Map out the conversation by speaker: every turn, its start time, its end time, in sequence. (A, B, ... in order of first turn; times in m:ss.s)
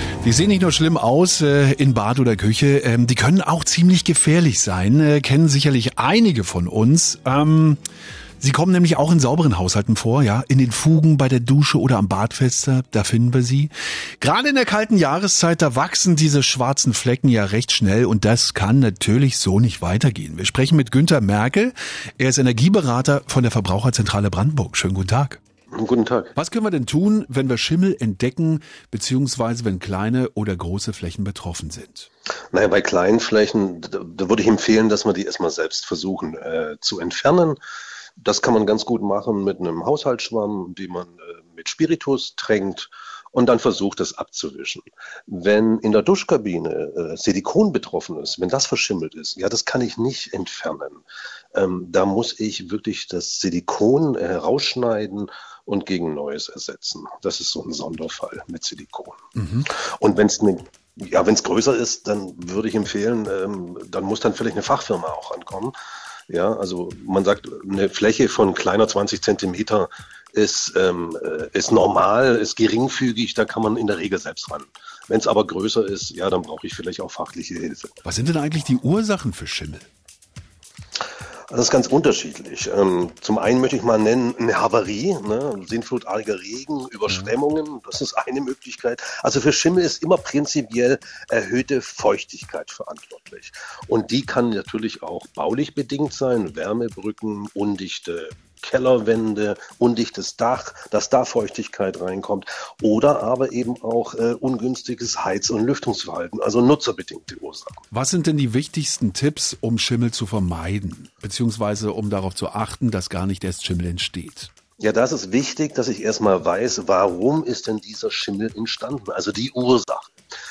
0:00.2-0:07.8 A
0:08.4-0:25.4 A
0:25.7-0:26.3 B
0:26.4-0:32.1 A
0:32.5-0:37.6 B
0:38.2-1:05.7 B
0:59.4-0:59.7 A
1:06.3-1:18.0 B
1:18.0-1:19.9 A
1:21.5-1:47.8 B
1:47.9-1:54.5 A
1:54.8-2:00.1 B